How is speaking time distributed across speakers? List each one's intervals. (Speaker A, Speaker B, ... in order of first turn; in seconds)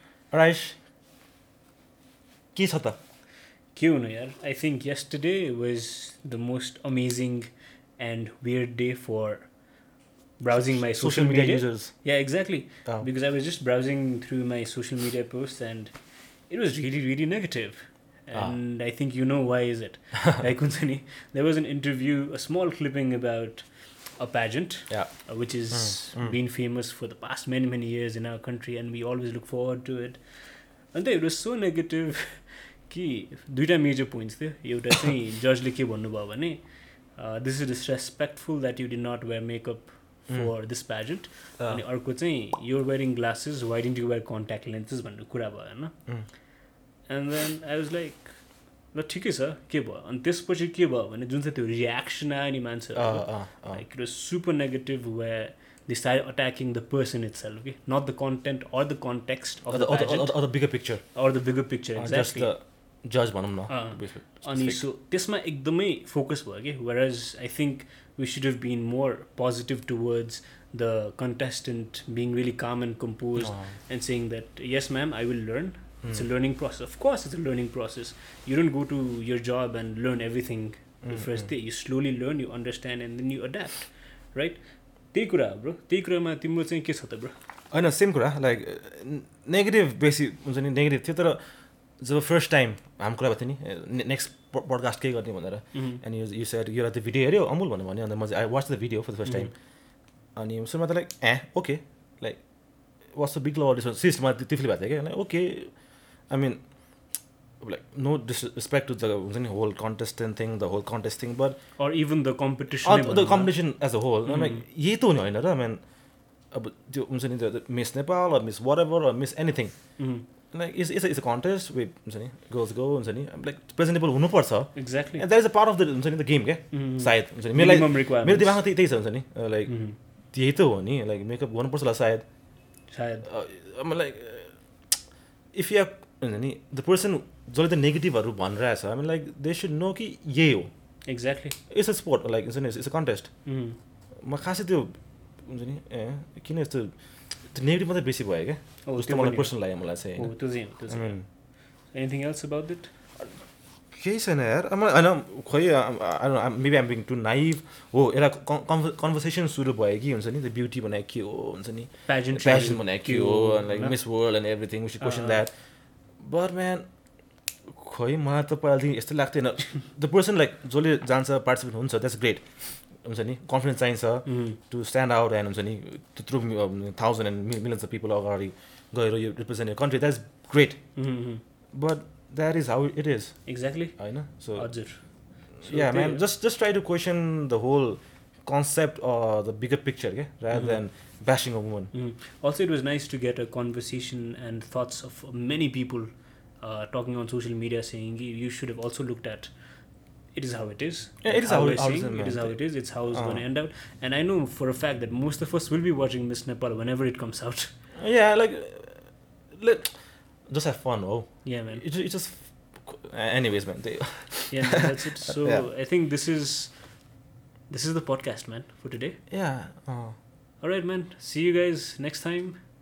Speaker A: 0.3-0.8, 2.5-3.0, 10.5-11.9, 25.7-26.3, 52.9-53.8, 59.7-61.0, 62.0-64.8, 73.4-73.7, 81.0-81.5, 87.7-91.4, 92.0-99.5, 100.3-102.4, 103.1-105.7, 106.3-106.6, 107.6-111.6, 112.8-115.8, 116.5-119.7, 120.5-129.7, 130.3-132.2, 133.2-134.5, 135.5-140.7, 141.7-143.3, 144.2-144.9, 145.4-146.9, 147.5-150.3, 150.9-151.2, 153.9-165.5, 166.2-166.8, 167.7-172.4, 173.0-180.8, 181.7-183.4, 184.0-184.7, 185.6-191.9, 201.2-203.4, 208.0-209.9, 210.5-215.7, 219.3-220.1
Speaker B: 3.7-9.5, 10.4-15.9, 16.5-30.2, 30.9-36.6, 37.1-45.9, 47.1-48.4, 48.9-60.5, 61.1-62.5, 63.7-84.6, 85.1-87.3, 95.7-96.0, 99.2-99.5, 111.8-113.5, 114.2-114.6, 120.0-120.2, 124.8-125.2, 126.7-128.6, 129.7-129.9, 132.9-133.2, 141.1-141.6, 143.4-143.8, 148.8-149.5, 150.2-151.2, 151.9-152.9, 162.1-163.9, 165.0-165.4, 174.2-174.6, 180.9-181.4, 183.4-185.0, 185.6-186.2, 190.5-190.8, 191.9-199.5, 200.3-207.7, 211.4-211.8, 214.5-216.9, 217.7-219.2, 220.6-222.6